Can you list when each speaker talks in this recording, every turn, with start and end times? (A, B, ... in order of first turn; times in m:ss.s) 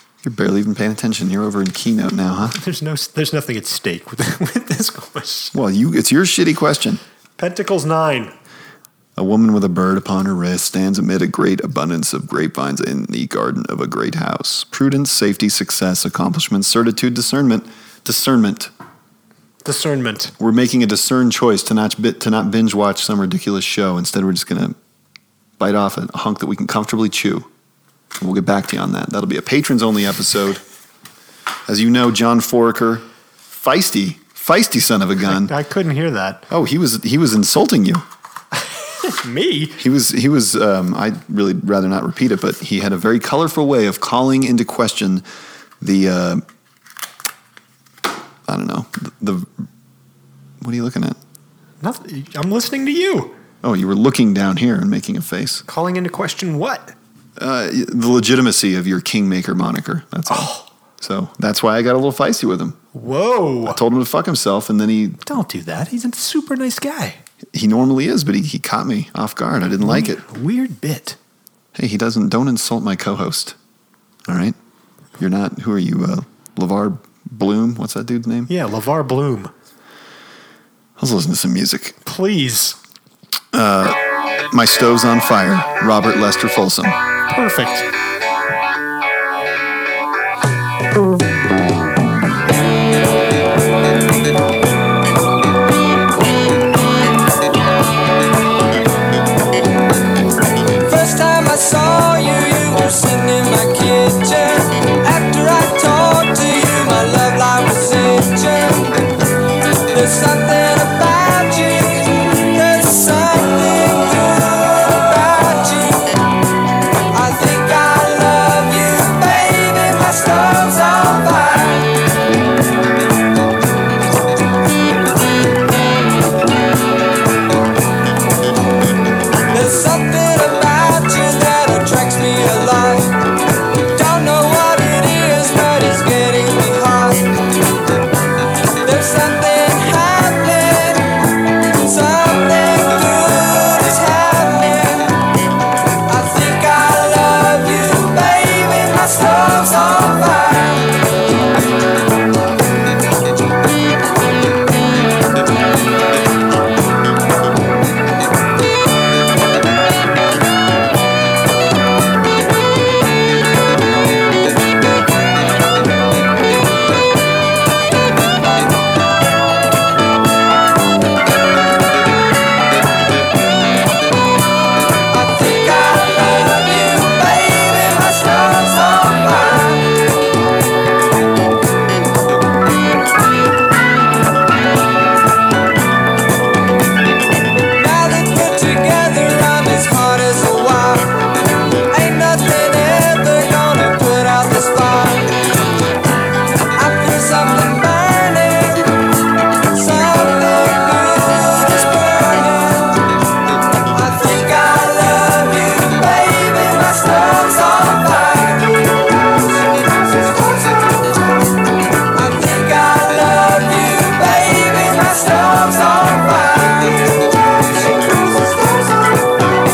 0:00.2-0:02.6 A
0:02.5-0:05.5 B
0:05.5-0:07.0 A
0:07.4-0:08.3 B
0:09.2-0:18.7 A
0:19.6-0:20.3 B
0:20.4-0:24.8 A
0:25.6-0:27.5 A
0:28.2-0:30.6 A
0:31.7-0:35.5 A
0:35.2-0:36.4 B
0:36.5-0:38.0 A
0:38.9-0:39.8 B
0:39.8-0:45.2 A
0:45.8-0:46.4 A
0:48.5-0:49.5 A
0:50.6-0:51.2 A
0:51.8-0:53.3 B
0:53.6-0:55.6 A
0:55.6-0:56.9 B
0:57.4-1:02.8 A
1:00.3-1:00.6 B
1:02.9-1:03.8 B
1:03.6-1:05.2 A
1:05.2-1:07.2 B
1:07.5-1:10.2 A
1:09.8-1:11.2 B
1:11.7-1:13.6 A
1:14.3-1:14.6 A
1:15.2-1:18.5 A
1:18.5-1:19.5 B
1:21.0-1:22.0 A
1:22.0-1:22.8 B
1:23.5-1:27.0 A
1:27.3-1:27.9 B
1:40.8-1:49.1 C
1:49.9-1:56.2 C
1:57.1-2:01.9 C
2:09.5-2:13.3 C
2:13.9-2:17.4 C
2:18.8-2:21.2 C
2:21.7-2:25.2 C
2:26.1-2:31.0 C
2:55.1-2:59.9 C
3:07.7-3:11.2 C
3:11.9-3:15.4 C
3:16.7-3:19.0 C
3:19.7-3:23.1 C
3:23.9-3:28.9 C
3:32.1-3:39.0 C